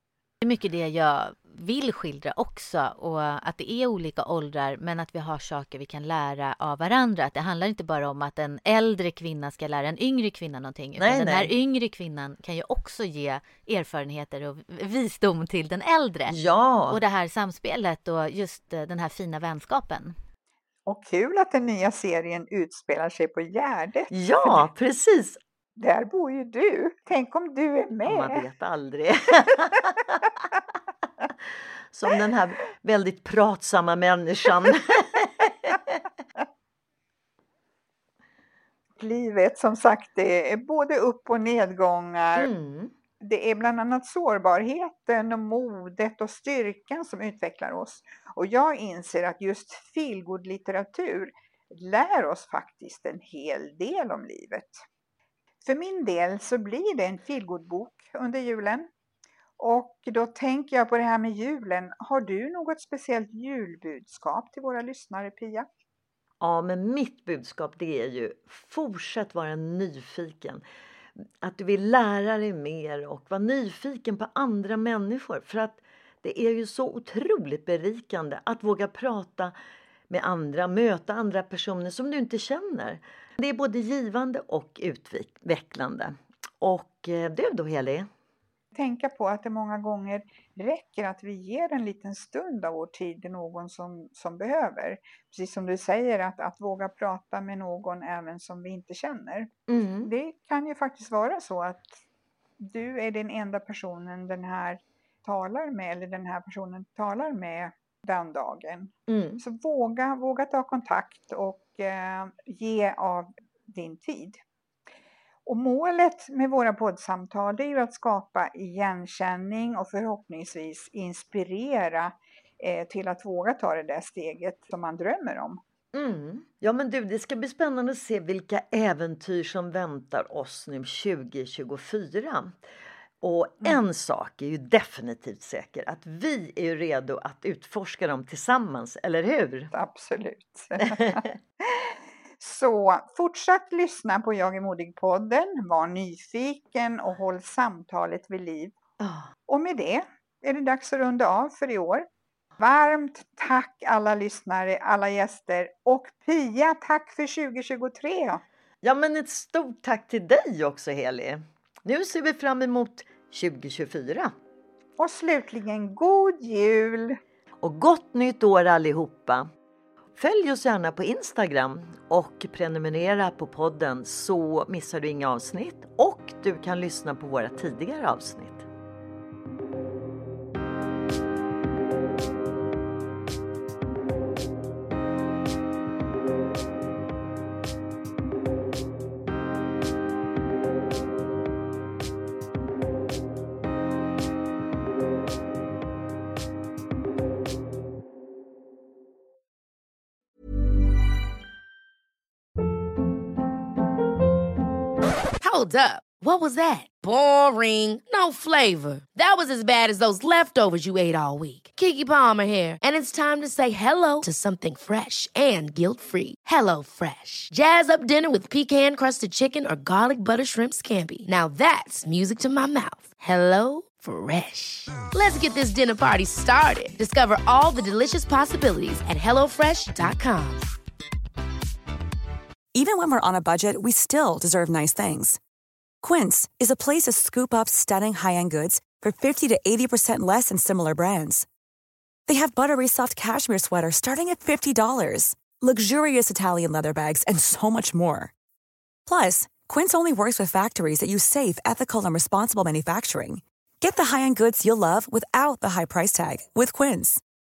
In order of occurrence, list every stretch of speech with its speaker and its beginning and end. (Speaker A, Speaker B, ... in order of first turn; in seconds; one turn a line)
Speaker A: 0.4-16.3
Speaker B: 11.0-11.5
Speaker B: 16.3-17.0
Speaker A: 16.9-20.1
Speaker C: 20.9-24.6
Speaker B: 24.1-25.4
Speaker C: 25.8-28.4
Speaker B: 28.0-30.0
Speaker B: 31.9-35.8
Speaker C: 39.0-42.5
Speaker B: 42.4-42.9
Speaker C: 43.2-54.8
Speaker C: 55.6-58.9
Speaker C: 59.6-65.7
Speaker B: 66.4-70.6
Speaker B: 71.4-79.5
Speaker B: 80.1-88.1
Speaker C: 88.7-99.5
Speaker B: 99.7-100.1
Speaker C: 100.0-102.0
Speaker C: 102.6-114.4
Speaker B: 109.1-109.4
Speaker C: 115.5-125.6
Speaker B: 125.9-132.5
Speaker B: 133.2-139.7
Speaker C: 139.7-148.7
Speaker B: 149.0-149.3
Speaker C: 149.5-152.1
Speaker C: 152.6-158.4
Speaker B: 158.8-164.3
Speaker C: 165.0-167.2
Speaker B: 167.6-169.5
Speaker B: 170.2-178.7
Speaker D: 205.4-230.6
Speaker E: 232.7-235.4
Speaker E: 236.0-241.4
Speaker E: 242.3-248.3
Speaker E: 249.1-257.2